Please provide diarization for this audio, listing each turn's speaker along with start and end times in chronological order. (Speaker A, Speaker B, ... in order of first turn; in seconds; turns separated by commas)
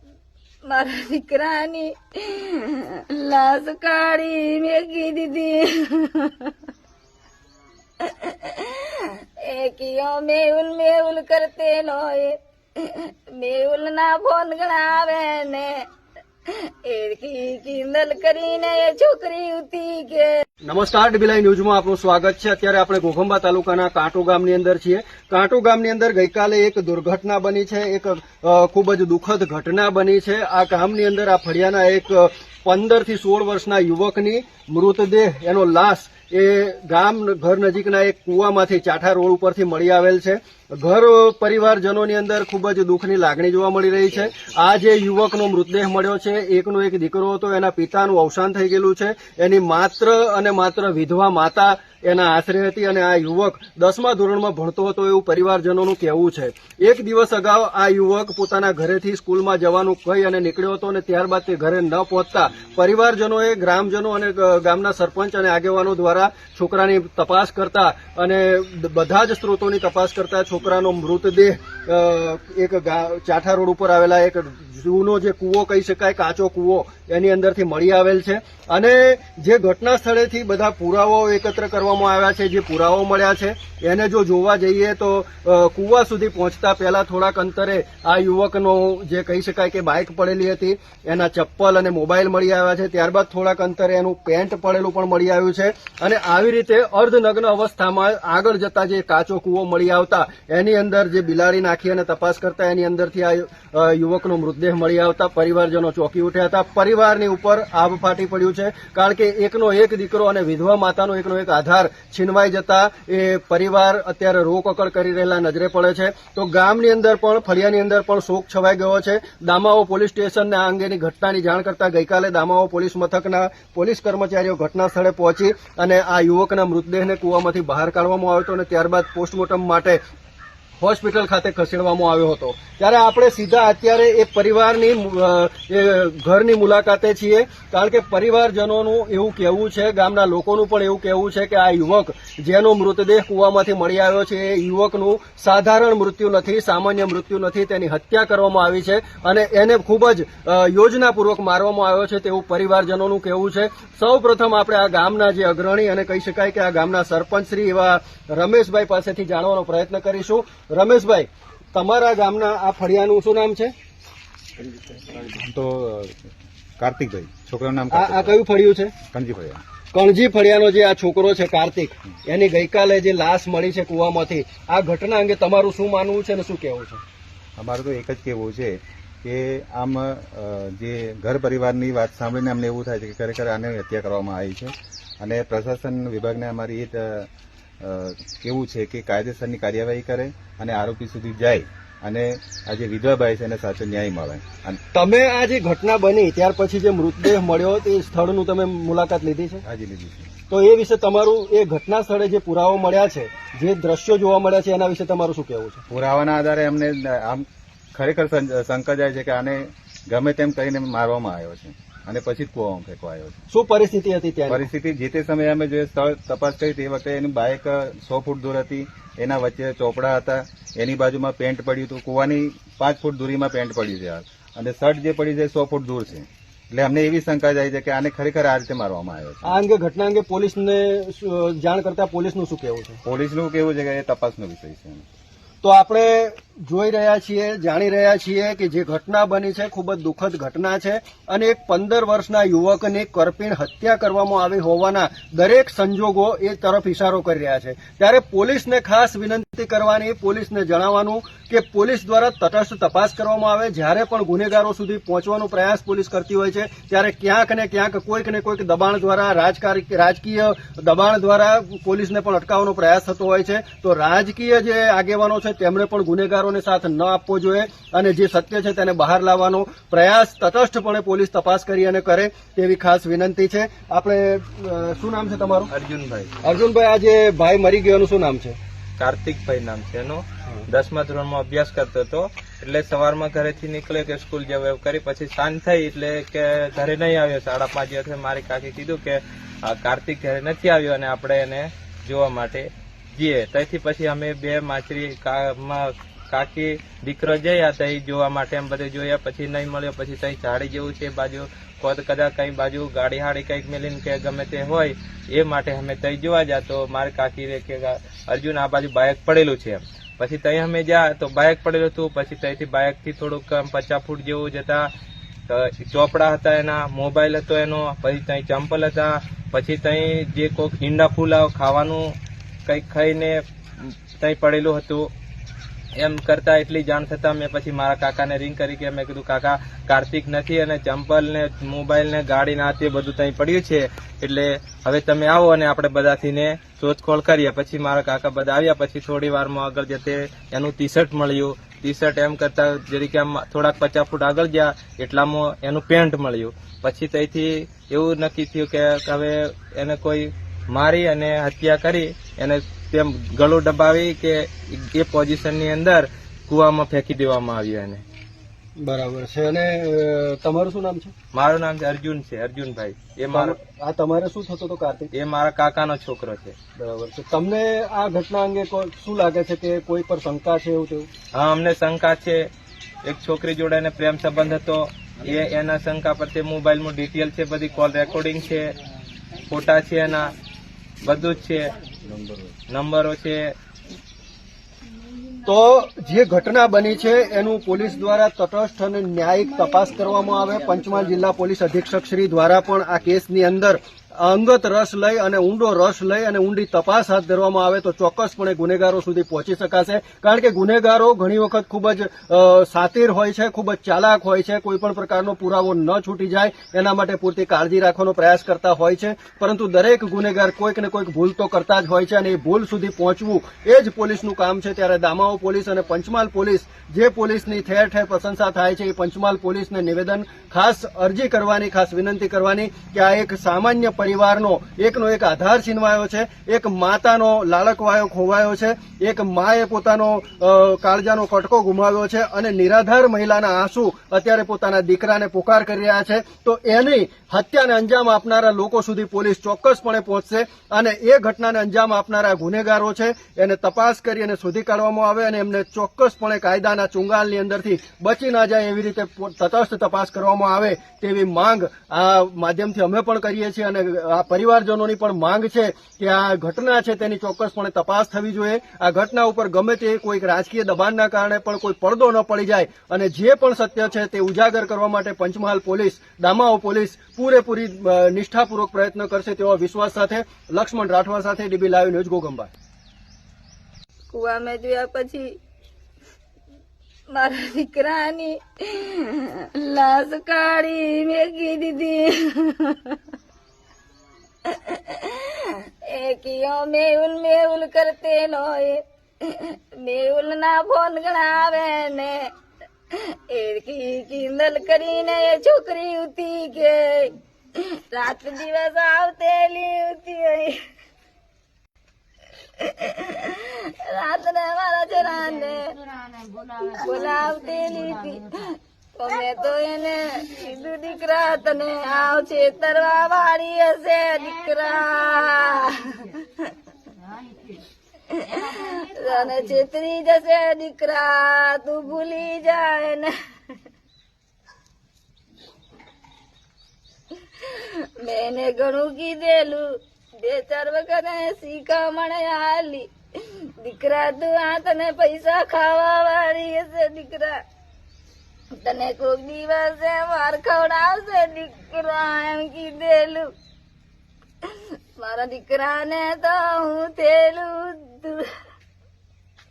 Speaker A: 0.7-6.5, Speaker A: 8.0-15.8, Speaker A: 16.8-20.3, Speaker B: 20.6-130.0, Speaker B: 130.8-163.7, Speaker C: 164.8-166.1, Speaker C: 166.8-168.3, Speaker B: 167.9-168.9, Speaker C: 169.1-169.6, Speaker B: 169.9-177.0, Speaker C: 177.6-187.3, Speaker C: 187.8-194.8, Speaker B: 194.9-199.6, Speaker C: 199.7-200.3, Speaker B: 200.5-205.8, Speaker C: 205.9-213.4, Speaker B: 213.5-214.6, Speaker C: 214.5-229.6, Speaker B: 229.4-233.0, Speaker C: 233.0-235.1, Speaker B: 235.6-275.7, Speaker D: 275.7-276.3, Speaker B: 276.4-278.6, Speaker D: 279.0-314.9, Speaker D: 315.5-322.1, Speaker D: 322.6-325.1, Speaker D: 326.0-358.0, Speaker B: 358.8-361.1, Speaker D: 361.3-363.6, Speaker B: 363.3-365.1, Speaker D: 365.1-366.5, Speaker B: 366.8-371.1, Speaker D: 371.3-372.5, Speaker D: 373.0-378.7, Speaker D: 379.5-380.3, Speaker D: 381.0-381.7, Speaker C: 382.0-382.5, Speaker D: 382.7-383.5, Speaker B: 385.4-472.5, Speaker A: 474.1-475.3, Speaker A: 477.1-483.0, Speaker A: 484.5-492.2, Speaker A: 492.9-500.6, Speaker A: 502.6-505.7, Speaker A: 506.6-516.5, Speaker A: 518.1-523.1, Speaker A: 527.4-529.6, Speaker A: 530.2-537.4, Speaker A: 538.5-543.3, Speaker A: 545.0-548.2